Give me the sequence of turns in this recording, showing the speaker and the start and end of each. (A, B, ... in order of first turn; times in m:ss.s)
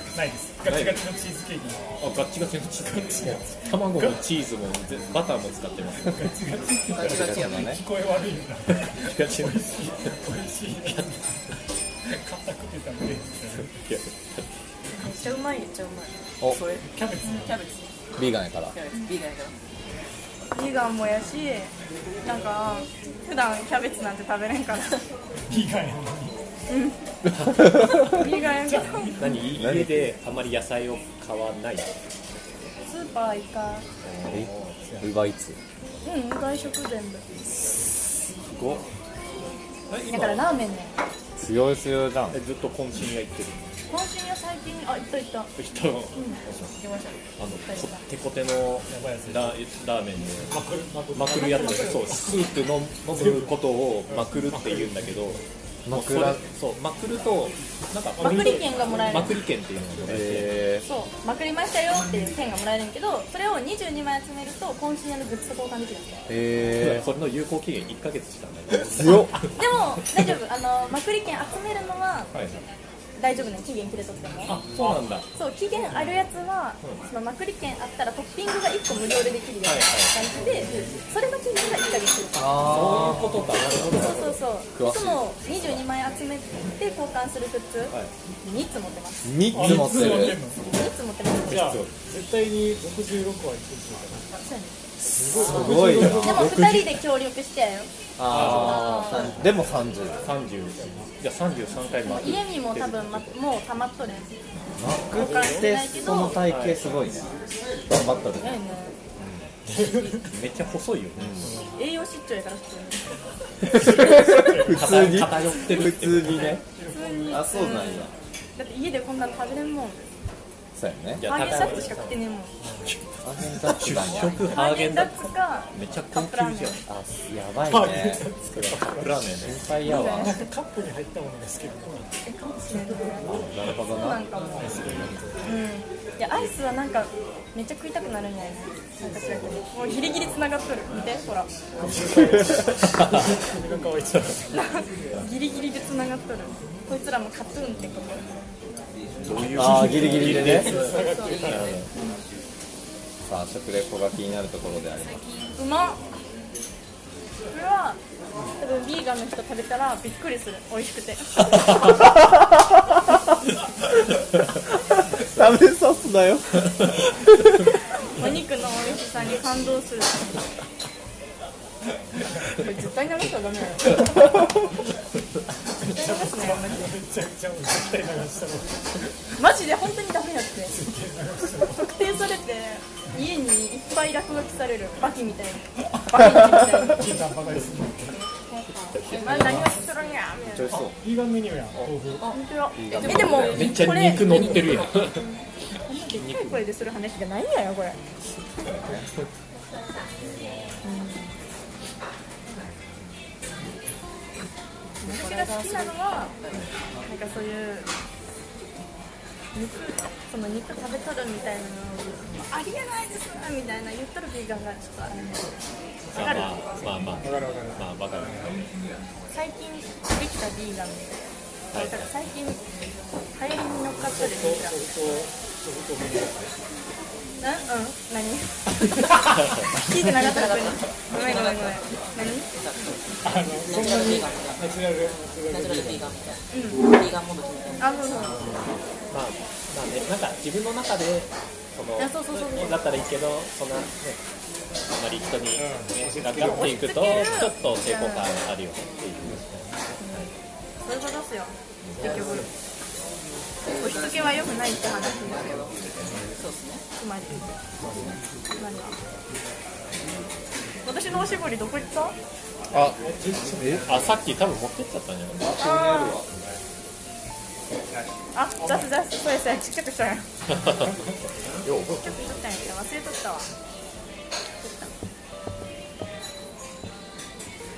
0:00.1-0:01.9 A
0:00.7-0:01.0 B
0:02.0-0:06.2 B
0:03.1-0:04.2 A
0:06.0-0:11.4 A
0:06.9-0:07.8 C
0:08.9-0:09.7 B
0:12.0-0:13.8 A
0:13.8-0:14.4 B
0:14.9-0:17.9 D
0:16.8-0:17.6 A
0:18.2-0:18.7 C
0:18.7-0:19.6 D
0:20.5-0:21.7 E
0:22.2-0:25.0 E
0:25.5-0:26.4 A
0:26.7-0:27.1 E
0:27.3-0:28.2 B
0:27.4-0:28.2 C
0:27.7-0:29.4 E
0:28.2-0:29.4 A
0:29.2-0:31.9 B
0:29.6-0:30.1 C
0:32.8-0:33.9 E
0:34.0-0:34.8 B
0:34.3-0:35.6 C
0:36.0-0:37.2 E
0:38.5-0:38.8 B
0:39.9-0:40.5 B
0:40.0-0:41.0 E
0:41.4-0:42.4 C
0:42.3-0:43.7 B
0:43.9-0:45.5 E
0:45.6-0:46.8 B
0:46.1-0:46.4 E
0:46.8-0:47.2 D
0:47.4-0:50.6 B
0:47.7-0:48.0 E
0:48.9-0:49.6 A
0:50.5-0:52.4 A
0:51.1-1:00.7 B
0:53.1-0:53.6 A
0:54.1-0:55.4 A
0:55.8-0:56.4 C
0:58.2-0:59.1 A
0:58.2-0:59.4 E
1:00.1-1:00.8 C
1:00.8-1:06.3 E
1:06.3-1:07.0 C
1:06.7-1:09.5 B
1:09.0-1:09.4 C
1:09.6-1:12.3 E
1:12.3-1:12.6 B
1:13.2-1:14.6 E
1:14.4-1:15.3 B
1:15.3-1:23.2 E
1:19.6-1:20.2 B
1:22.4-1:25.6 C
1:22.5-1:24.4 B
1:23.9-1:29.4 E
1:29.2-1:30.4 C
1:29.5-1:30.6 A
1:30.6-1:31.8 E
1:31.5-1:31.9 B
1:31.5-1:34.3 A
1:34.4-1:34.8 E
1:35.0-1:36.8 C
1:35.1-1:36.6 A
1:35.4-1:37.0 B
1:35.6-1:37.9 E
1:38.2-1:40.2 C
1:38.2-1:39.4 B
1:38.6-1:39.2 D
1:38.7-1:39.3 E
1:40.2-1:43.4 B
1:40.7-1:41.1 A
1:42.0-1:44.3 E
1:44.8-1:47.3 C
1:45.1-1:45.8 A
1:45.2-1:46.5 E
1:46.4-1:46.8 B
1:47.9-1:48.6 C
1:48.4-1:49.0 E
1:49.6-1:50.4 A
1:50.1-1:51.5 B
1:51.2-1:51.4 C
1:51.4-1:51.7 A
1:51.8-1:53.0 E
1:53.7-1:55.0 A
1:53.8-1:56.6 C
1:54.6-1:56.6 B
1:56.2-1:57.6 A
1:56.9-2:00.1 E
1:57.3-1:58.1 C
2:00.8-2:01.3 C
2:01.2-2:02.2 B
2:01.2-2:02.5 E
2:02.6-2:02.9 A
2:02.8-2:06.9 B
2:03.2-2:04.5 C
2:04.4-2:06.8 E
2:06.9-2:08.2 C
2:07.6-2:09.2 A
2:08.5-2:10.4 B
2:09.4-2:10.1 C
2:09.8-2:10.5 E
2:10.2-2:13.4 A
2:12.2-2:13.3 E
2:13.3-2:14.0 B
2:13.6-2:14.2 C
2:13.8-2:14.8 E
2:14.5-2:15.5 A
2:15.4-2:21.5 E
2:19.1-2:19.6 A
2:21.8-2:24.6 A
2:24.5-2:28.2 E
2:29.2-2:31.9 B
2:29.3-2:31.7 A
2:29.5-2:30.8 C
2:30.7-2:31.8 D
2:30.9-2:32.2 E
2:33.2-2:35.2 C
2:35.0-2:35.6 D
2:35.5-2:36.0 E
2:37.5-2:38.0 E
2:38.6-2:41.6 E
2:42.3-2:42.6 C
2:44.9-2:47.4 C
2:48.1-2:50.4 E
2:52.5-2:54.4 E
2:55.7-2:59.0 A
2:55.8-2:56.9 E
2:59.4-3:00.8 E
3:00.7-3:01.9 A
3:01.7-3:07.2 E
3:06.7-3:08.2 A
3:08.2-3:10.8 E
3:08.9-3:09.9 D
3:09.0-3:09.6 B
3:09.3-3:09.7 A
3:10.6-3:10.9 C
3:10.6-3:10.9 B
3:10.7-3:12.3 A
3:12.2-3:14.9 D
3:12.2-3:18.0 E
3:12.7-3:13.6 C
3:13.0-3:15.3 B
3:16.0-3:16.6 B
3:18.3-3:19.1 B
3:20.2-3:20.8 A
3:20.8-3:21.3 E
3:25.0-3:26.3 E
3:25.0-3:26.7 D
3:27.0-3:27.9 E
3:29.5-3:35.4 E
3:36.1-3:36.6 E
3:36.1-3:38.5 B
3:37.2-3:38.6 A
3:39.3-3:42.6 E
3:41.7-3:42.1 B
3:43.3-3:44.8 E
3:44.1-3:46.6 A
3:47.4-3:52.5 E
3:50.1-3:58.3 D
3:53.2-3:56.4 A
3:56.5-3:56.8 E
3:57.8-3:58.5 E
3:58.2-3:58.7 A
3:59.1-4:04.2 B
4:02.0-4:02.9 E
4:04.9-4:10.3 B
4:05.6-4:06.9 A
4:06.4-4:08.3 E
4:08.8-4:09.1 D
4:09.3-4:09.7 A
4:10.0-4:10.3 E
4:10.8-4:12.4 E
4:11.8-4:12.2 B
4:12.0-4:12.4 D
4:13.7-4:14.2 D
4:13.7-4:15.6 E
4:15.2-4:16.8 D
4:17.0-4:17.5 E
4:18.6-4:19.0 E
4:20.8-4:22.1 E
4:22.7-4:23.0 C
4:23.0-4:24.0 A
4:23.5-4:23.8 C
4:23.8-4:25.5 B
4:25.4-4:26.3 C
4:25.6-4:26.2 E
4:28.3-4:30.3 E
4:30.5-4:31.0 B
4:31.6-4:32.4 B
4:31.9-4:33.5 E
4:34.6-4:34.9 E